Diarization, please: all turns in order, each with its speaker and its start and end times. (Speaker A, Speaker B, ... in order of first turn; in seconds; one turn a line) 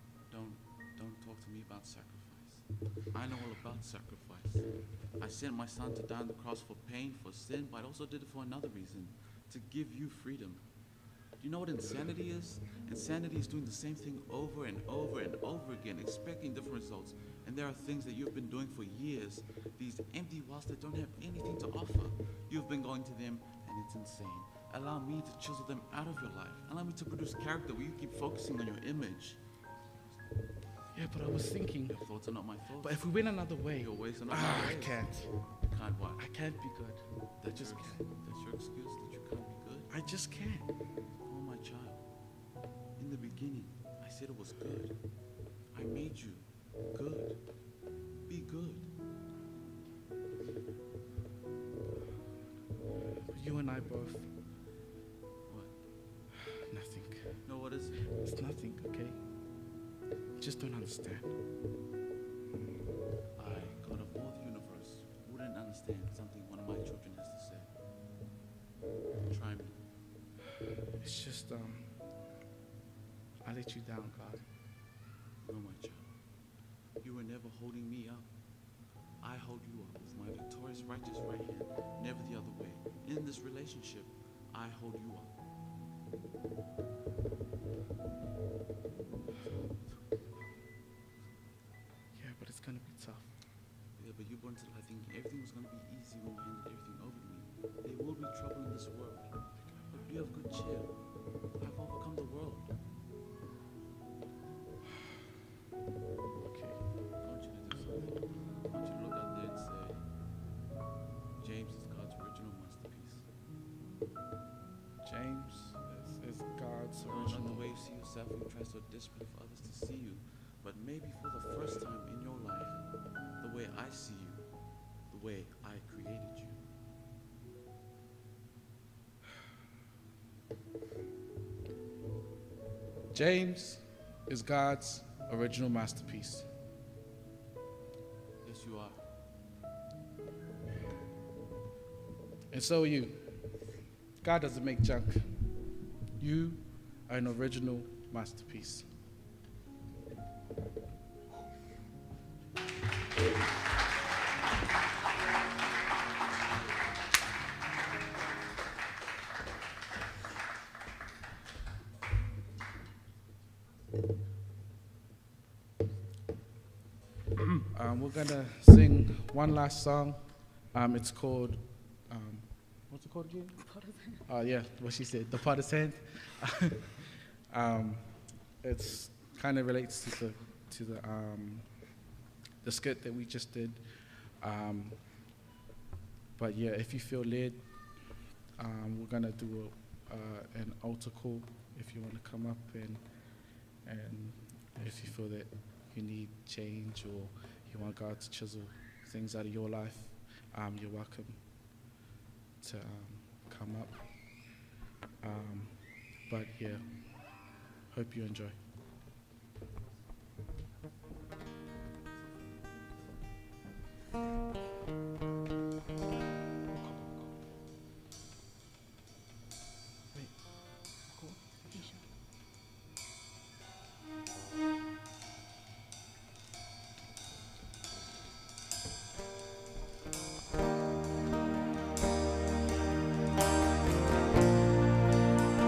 Speaker A: 0.3-29.5
Speaker B: 30.9-32.0
Speaker A: 31.9-36.3
Speaker B: 32.8-35.3
Speaker B: 36.2-38.0
Speaker A: 37.4-39.9
Speaker B: 39.9-40.7
Speaker A: 41.2-42.4
Speaker A: 43.0-47.7
Speaker A: 48.2-48.9
Speaker B: 53.3-54.3
Speaker A: 55.5-55.8
Speaker B: 56.6-57.3
Speaker A: 57.5-58.0
Speaker B: 58.2-59.2
Speaker B: 60.4-61.4
Speaker A: 63.4-67.7
Speaker A: 69.3-69.8
Speaker B: 71.0-71.9
Speaker B: 73.4-74.4
Speaker A: 75.4-85.3
Speaker B: 92.2-93.3
Speaker A: 94.0-101.0
Speaker B: 99.6-100.0
Speaker A: 101.5-102.7
Speaker B: 106.4-106.8
Speaker A: 107.2-110.0
Speaker A: 111.4-113.2
Speaker B: 115.0-117.7
Speaker A: 117.1-124.5
Speaker A: 125.1-126.6
Speaker B: 133.1-136.5
Speaker A: 138.4-139.0
Speaker B: 142.5-143.3
Speaker B: 144.2-145.3
Speaker B: 146.2-148.9
Speaker B: 167.7-173.6
Speaker B: 174.3-177.0
Speaker B: 177.5-182.1
Speaker B: 182.6-185.1
Speaker B: 186.4-201.4
Speaker B: 202.6-204.5
Speaker B: 205.2-208.6
Speaker B: 220.1-221.4